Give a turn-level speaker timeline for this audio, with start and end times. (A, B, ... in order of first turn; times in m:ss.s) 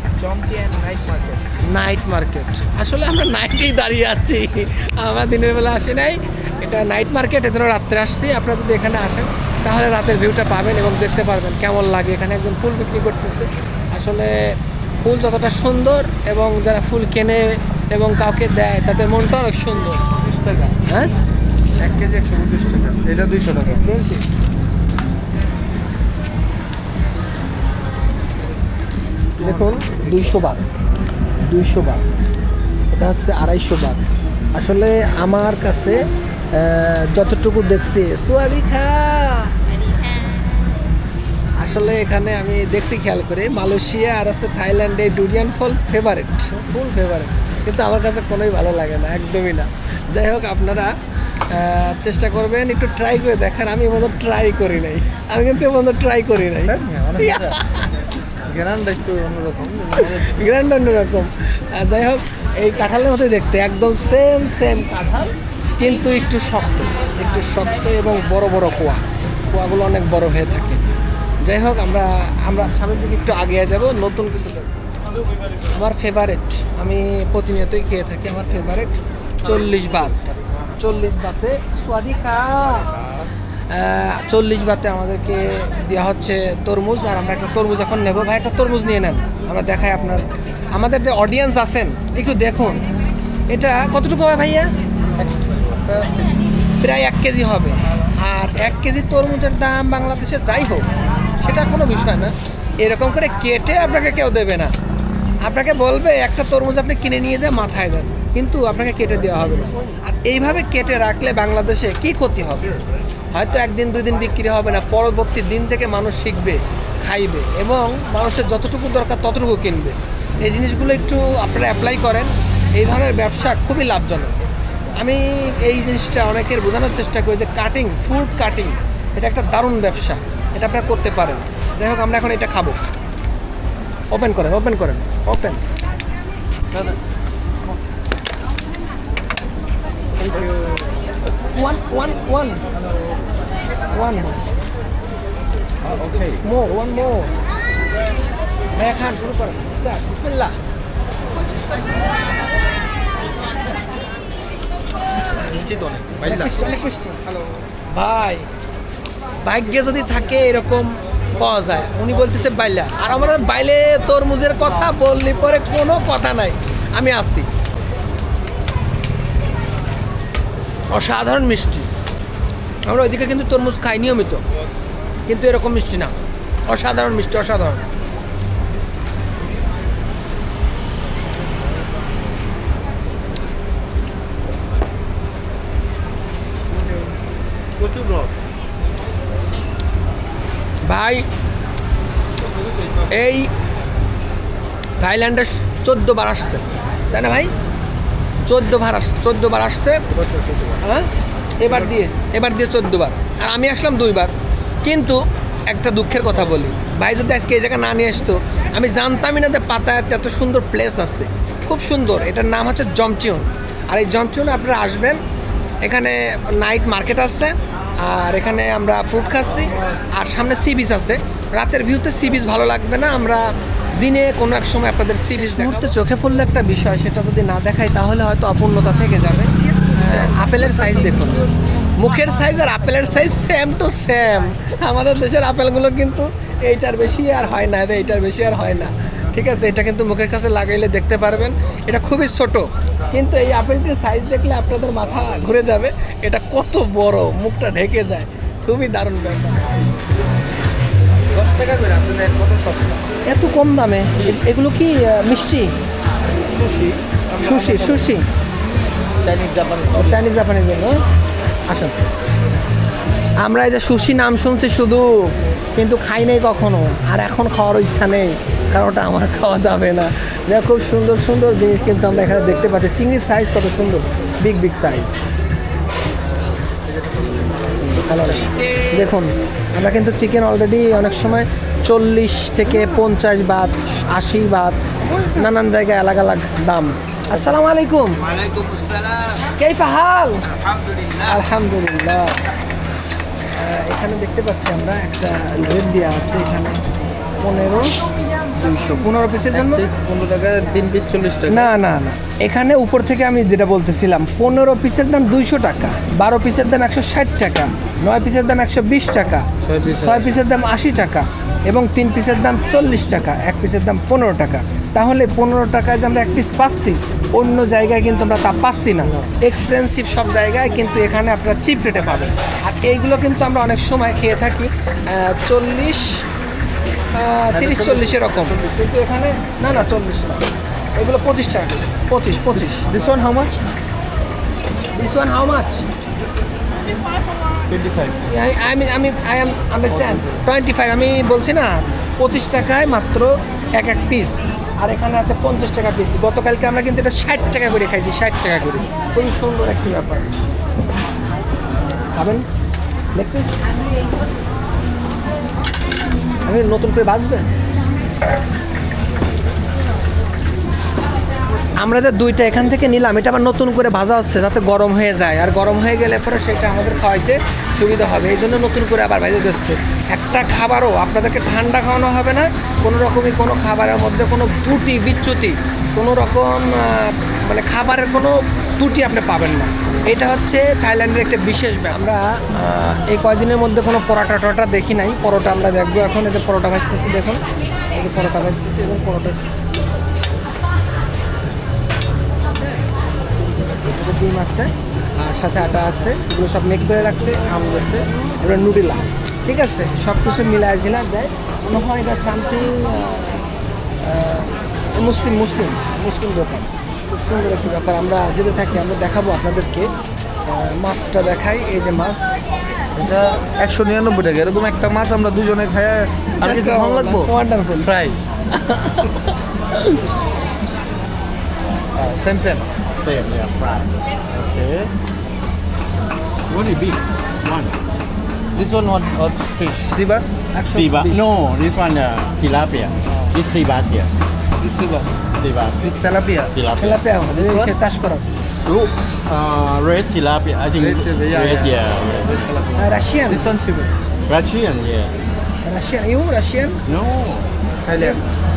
0:00.2-0:01.4 A
0:01.7-0:20.0 B
0:20.0-0:20.8 A
0:21.8-0:23.8 A
0:23.7-0:24.3 B
0:29.3-0:30.6 A
0:29.4-0:30.8 B
0:31.5-0:32.0 B
0:32.9-0:34.0 B
0:34.6-0:39.5 B
0:41.6-0:51.0 B
0:51.5-0:57.9 B
0:56.7-0:57.6 A
0:58.5-1:00.5 A
1:00.0-1:10.8 B
1:11.4-1:14.7 B
1:15.7-1:20.2 B
1:20.8-1:23.0 B
1:23.7-1:32.8 B
1:33.5-1:34.7 B
1:35.2-1:36.5 A
1:36.8-1:40.9 B
1:41.4-1:44.7 B
1:45.4-1:52.7 B
1:53.3-2:04.3 B
2:05.0-2:12.8 B
2:14.1-2:15.6 B
2:16.7-2:17.0 A
2:17.5-2:17.8 A
2:20.2-2:20.8 A
2:21.5-2:22.7 B
2:23.9-2:24.6 B
2:25.9-2:26.4 C
2:26.4-2:27.3 B
2:28.7-2:30.6 B
2:35.4-2:37.2 B
2:36.2-2:36.7 A
2:37.9-2:38.5 B
2:39.4-2:47.5 B
2:50.9-2:51.9 B
2:52.9-2:54.4 B
2:55.3-2:56.2 B
2:56.7-2:57.8 B
3:07.8-3:08.3 A
3:10.8-3:11.3 B
3:13.1-3:13.5 B
3:15.0-3:17.5 B
3:18.5-3:20.1 B
3:20.2-3:20.8 A
3:20.8-3:21.1 B
3:21.6-3:35.2 B
3:35.8-3:51.4 B
3:52.0-4:09.8 B
4:11.3-4:13.1 A
4:13.3-4:15.8 B
4:16.4-4:18.1 A
4:17.4-4:18.3 B
4:19.2-4:20.0 A
4:19.3-4:19.8 C
4:19.9-4:21.0 B
4:21.7-4:22.0 B
4:23.4-4:35.2 B
4:37.1-4:37.4 A
4:37.8-4:48.3 B
4:48.4-4:49.2 A
4:49.5-4:50.6 B
4:51.1-4:52.4 B
4:53.6-4:58.0 B
4:58.5-4:59.8 B
4:59.5-5:01.7 A
5:01.5-5:26.2 B
5:09.6-5:10.4 A
5:27.1-5:32.9 B
5:27.5-5:28.7 A
5:32.8-5:33.6 A
5:34.9-5:35.9 B
5:36.9-5:38.2 A
5:38.3-5:50.3 B
5:39.9-5:40.4 A
5:52.1-5:52.5 B
5:53.1-5:53.6 B
5:56.4-5:57.5 B
6:01.8-6:29.4 B
6:32.5-6:32.8 B
6:33.6-6:43.5 B
6:44.0-6:49.9 B
6:50.5-6:52.4 B
6:53.0-6:57.3 A
6:56.4-6:57.9 B
6:57.8-6:58.2 A
6:58.5-7:00.0 B
7:02.0-7:02.7 A
7:03.0-7:04.9 C
7:06.5-7:07.8 C
7:08.6-7:10.4 A
7:10.5-7:11.2 B
7:10.7-7:14.1 C
7:14.6-7:15.2 A
7:15.4-7:15.8 C
7:15.8-7:16.5 A
7:16.5-7:17.0 C
7:16.8-7:18.2 B
7:17.3-7:17.8 A
7:18.7-7:22.8 C
7:20.8-7:24.0 A
7:22.8-7:23.5 B
7:24.3-7:25.2 C
7:25.6-7:26.8 B
7:26.9-7:27.5 C
7:27.8-7:28.2 A